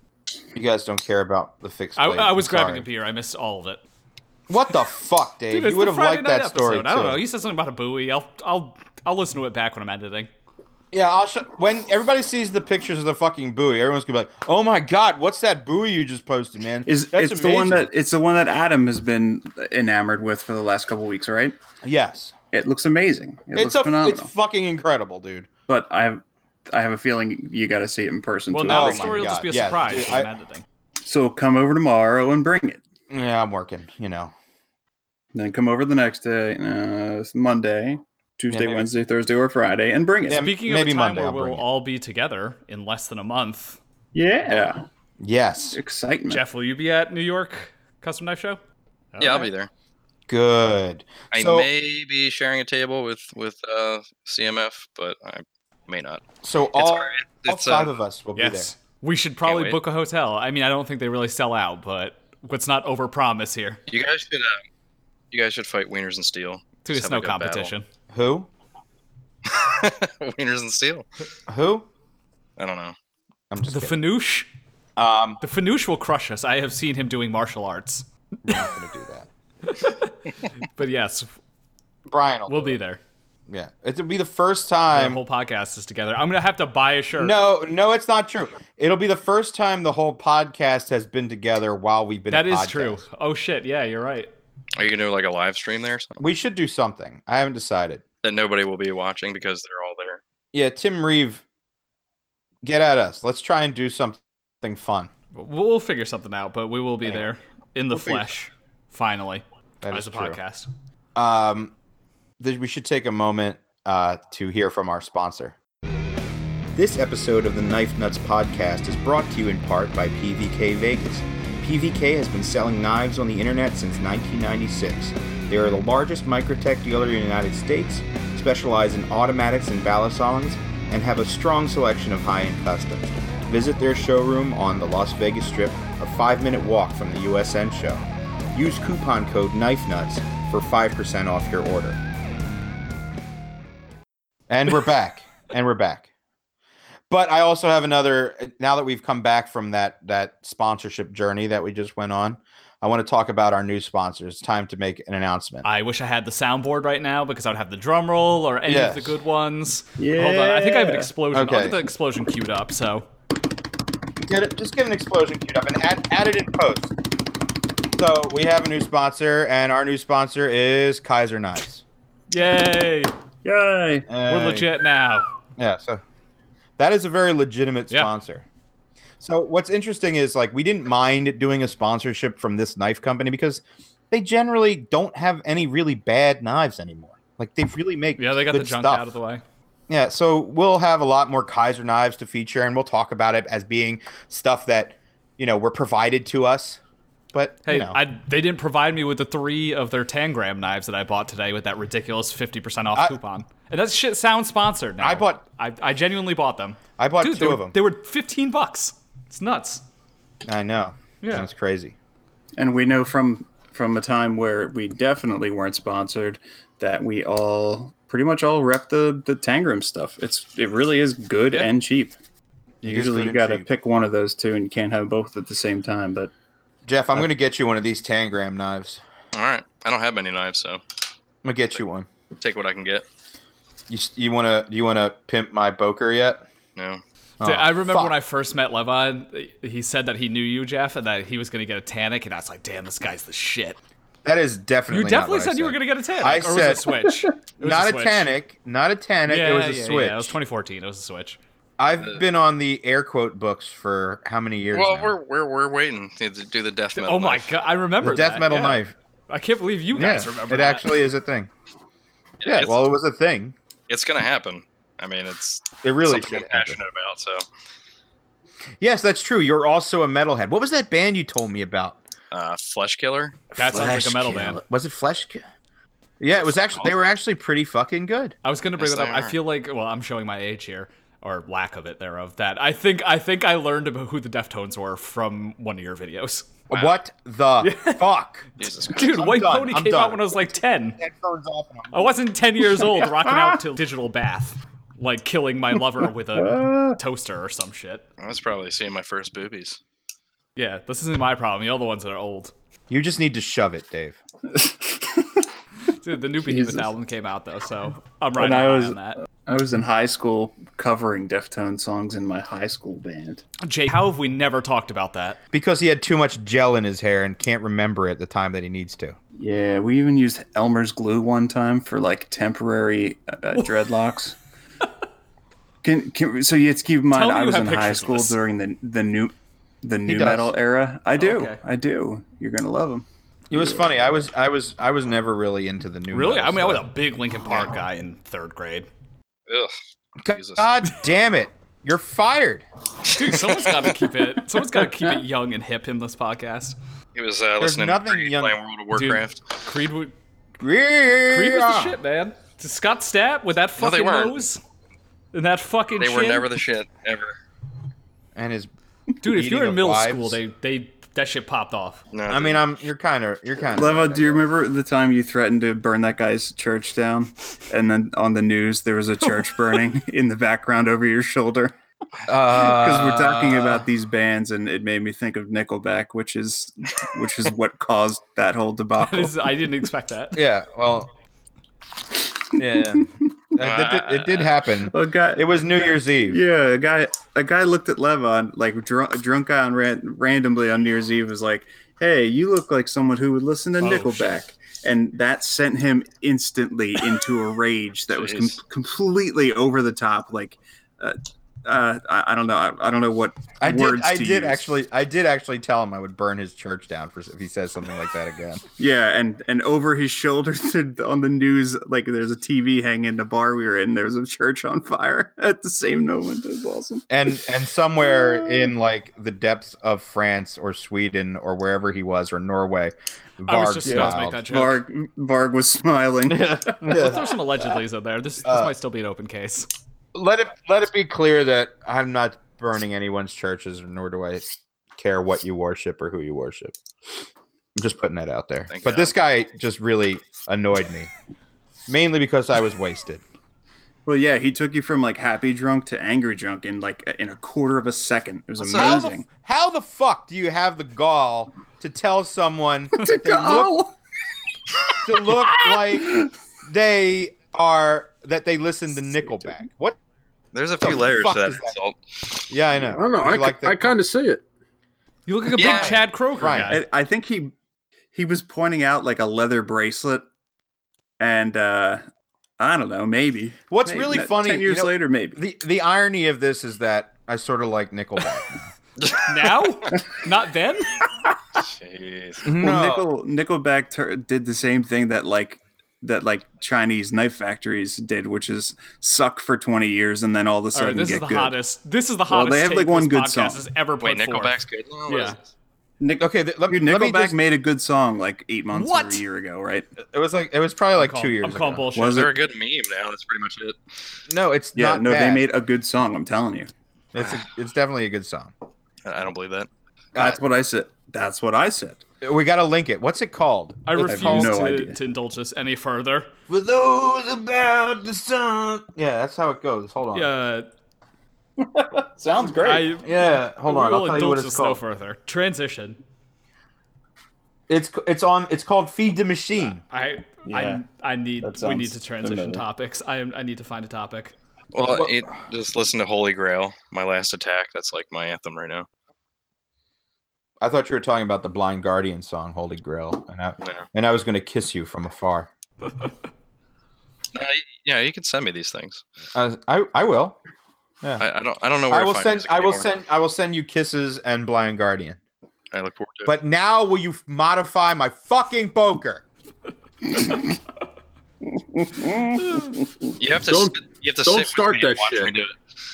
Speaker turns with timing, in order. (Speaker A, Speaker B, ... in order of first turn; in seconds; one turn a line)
Speaker A: 0.5-2.9
Speaker B: 1.9-3.8
Speaker A: 4.5-7.2
Speaker B: 5.5-10.3
Speaker A: 10.9-17.9
Speaker C: 16.9-21.6
Speaker A: 21.8-22.3
Speaker C: 22.5-24.3
Speaker A: 23.5-25.5
Speaker C: 25.7-29.4
Speaker B: 28.5-30.6
Speaker A: 28.6-30.3
Speaker C: 31.0-32.8
Speaker A: 33.1-34.3
Speaker C: 35.3-40.5
Speaker A: 38.5-38.9
Speaker A: 40.3-41.6
Speaker B: 40.4-43.8
Speaker C: 44.1-44.9
Speaker A: 45.2-45.8
Speaker C: 45.7-46.4
Speaker B: 46.3-48.6
Speaker B: 49.1-49.5
Speaker D: 49.2-49.7
Speaker A: 50.3-51.7
Speaker D: 51.3-56.2
Speaker A: 56.4-58.7
Speaker D: 56.7-57.9
Speaker B: 58.4-63.8
Speaker D: 59.5-59.8
Speaker D: 63.9-64.6
Speaker D: 65.3-67.7
Speaker B: 66.8-67.8
Speaker A: 68.1-68.5
Speaker D: 69.4-71.0
Speaker A: 71.5-71.9
Speaker D: 72.6-72.9
Speaker A: 73.5-74.0
Speaker B: 73.7-74.5
Speaker A: 75.0-75.4
Speaker B: 75.4-78.6
Speaker A: 78.4-79.3
Speaker B: 79.7-81.3
Speaker A: 82.1-82.8
Speaker B: 82.5-83.0
Speaker A: 83.5-85.2
Speaker B: 84.9-87.4
Speaker A: 87.2-93.0
Speaker B: 92.3-94.3
Speaker D: 94.8-96.2
Speaker A: 96.2-98.0
Speaker D: 98.2-100.2
Speaker A: 100.5-101.4
Speaker A: 102.6-105.1
Speaker B: 105.3-110.7
Speaker A: 107.9-108.3
Speaker A: 109.8-110.4
Speaker A: 111.2-111.7
Speaker A: 112.4-115.5
Speaker A: 116.7-142.0
Speaker A: 144.5-146.1
Speaker A: 147.1-155.7
Speaker B: 155.6-163.1
Speaker A: 158.7-159.2
Speaker C: 160.0-161.1
Speaker A: 161.3-161.8
Speaker A: 164.2-166.9
Speaker A: 167.9-171.8
Speaker B: 172.3-173.1
Speaker C: 173.4-174.1
Speaker A: 174.1-174.7
Speaker B: 174.3-175.2
Speaker A: 175.6-176.0
Speaker A: 176.8-178.4
Speaker A: 179.2-189.1
Speaker B: 188.2-189.4
Speaker A: 189.9-196.8
Speaker A: 197.3-198.0
Speaker B: 197.7-209.8
Speaker A: 205.0-205.4
Speaker A: 207.0-207.7
Speaker A: 210.4-211.9
Speaker B: 211.2-211.5
Speaker C: 212.6-222.2
Speaker C: 222.8-226.3
Speaker A: 222.8-223.7
Speaker A: 226.8-229.0
Speaker D: 229.3-230.8
Speaker A: 231.4-232.1
Speaker D: 232.4-233.0
Speaker A: 233.9-236.4
Speaker D: 236.8-237.0
Speaker A: 237.4-238.1
Speaker B: 237.4-243.8
Speaker A: 244.2-246.9
Speaker B: 244.9-248.3
Speaker A: 247.6-250.3
Speaker B: 249.3-251.4
Speaker A: 251.8-255.1
Speaker D: 254.7-257.6
Speaker B: 257.0-260.9
Speaker A: 258.0-258.9
Speaker A: 259.9-261.5
Speaker D: 262.4-262.8
Speaker A: 262.4-263.5
Speaker D: 263.9-267.4
Speaker A: 265.8-266.8
Speaker A: 268.8-272.0
Speaker D: 272.3-273.4
Speaker A: 273.5-275.4
Speaker B: 273.6-274.6
Speaker A: 276.2-278.4
Speaker D: 276.4-276.9
Speaker B: 278.4-286.5
Speaker D: 278.8-279.4
Speaker A: 286.7-288.5
Speaker D: 286.7-287.0
Speaker B: 287.6-288.0
Speaker D: 288.6-289.2
Speaker B: 288.9-291.0
Speaker A: 289.0-292.1
Speaker B: 291.9-298.1
Speaker C: 292.9-293.5
Speaker C: 296.3-297.0
Speaker D: 298.2-299.8
Speaker B: 300.6-302.5
Speaker A: 302.9-304.2
Speaker C: 304.5-305.4
Speaker B: 306.0-309.2
Speaker C: 306.4-306.9
Speaker C: 308.4-313.4
Speaker B: 313.6-315.4
Speaker A: 315.5-319.2
Speaker C: 319.4-324.4
Speaker C: 325.8-333.9
Speaker B: 327.1-328.4
Speaker A: 330.0-330.5
Speaker B: 331.1-331.6
Speaker A: 333.5-336.9
Speaker B: 336.1-338.9
Speaker D: 339.5-339.7
Speaker A: 340.2-342.6
Speaker D: 340.3-340.7
Speaker B: 343.1-346.8
Speaker D: 343.3-343.7
Speaker D: 347.1-349.4
Speaker A: 347.6-348.6
Speaker B: 348.9-350.1
Speaker A: 350.6-352.0
Speaker B: 351.3-354.6
Speaker D: 353.8-354.4
Speaker B: 355.3-356.5
Speaker D: 356.0-357.4
Speaker A: 358.3-358.7
Speaker B: 359.2-362.0
Speaker A: 359.2-360.4
Speaker D: 362.1-362.6
Speaker A: 362.3-364.4
Speaker C: 363.7-371.8
Speaker A: 372.3-373.8
Speaker C: 372.5-379.5
Speaker B: 379.0-380.4
Speaker A: 380.3-381.1
Speaker A: 382.5-386.4
Speaker D: 383.6-384.7
Speaker C: 384.9-404.7
Speaker B: 393.8-394.3
Speaker D: 398.1-398.6
Speaker A: 403.6-408.6
Speaker C: 408.8-417.1
Speaker A: 417.1-424.4
Speaker C: 418.1-418.7
Speaker B: 423.4-424.8
Speaker C: 423.8-427.1
Speaker A: 426.3-427.3
Speaker B: 426.9-429.7
Speaker A: 428.4-428.7
Speaker A: 430.1-436.7
Speaker A: 437.8-441.1
Speaker D: 438.7-439.1
Speaker A: 441.9-443.2
Speaker C: 444.1-449.2
Speaker D: 448.6-449.1
Speaker A: 448.7-453.8
Speaker C: 453.0-453.9
Speaker C: 454.7-456.3
Speaker A: 455.0-460.0
Speaker D: 460.5-462.0
Speaker A: 460.8-461.8
Speaker A: 462.5-463.9
Speaker E: 462.8-464.4
Speaker B: 465.3-466.8
Speaker D: 465.6-466.0
Speaker A: 465.6-466.8
Speaker C: 466.7-467.5
Speaker C: 468.1-470.2
Speaker C: 471.2-472.0
Speaker C: 472.6-475.4
Speaker A: 473.7-478.7
Speaker D: 479.0-479.2
Speaker B: 479.2-481.0
Speaker D: 481.6-482.5
Speaker A: 482.4-483.1
Speaker C: 482.6-491.6
Speaker B: 490.7-494.5
Speaker C: 492.3-493.6
Speaker D: 494.0-495.4
Speaker B: 495.1-495.4
Speaker C: 496.0-499.9
Speaker A: 496.2-497.4
Speaker B: 498.7-499.2
Speaker A: 500.0-501.9
Speaker B: 500.9-502.2
Speaker C: 501.9-502.3
Speaker D: 502.0-503.8
Speaker A: 504.3-505.4
Speaker C: 504.7-506.7
Speaker A: 507.1-508.5
Speaker D: 509.0-509.7
Speaker A: 510.1-510.4
Speaker C: 510.1-512.0
Speaker A: 512.2-514.6
Speaker B: 513.9-516.3
Speaker C: 514.0-515.0
Speaker A: 516.5-520.3
Speaker B: 520.1-520.7
Speaker C: 521.6-522.9
Speaker B: 522.6-526.0
Speaker A: 523.0-524.8
Speaker A: 527.7-529.8
Speaker B: 529.9-534.3
Speaker C: 530.5-530.8
Speaker C: 531.4-532.6
Speaker D: 534.7-538.9
Speaker A: 534.9-535.2
Speaker A: 540.6-545.5
Speaker D: 547.3-549.0
Speaker A: 549.3-550.4
Speaker D: 551.2-552.9
Speaker A: 551.9-555.2
Speaker D: 555.7-556.3
Speaker A: 556.2-559.2
Speaker C: 561.6-562.9
Speaker B: 562.4-562.7
Speaker D: 563.2-565.5
Speaker E: 563.5-565.3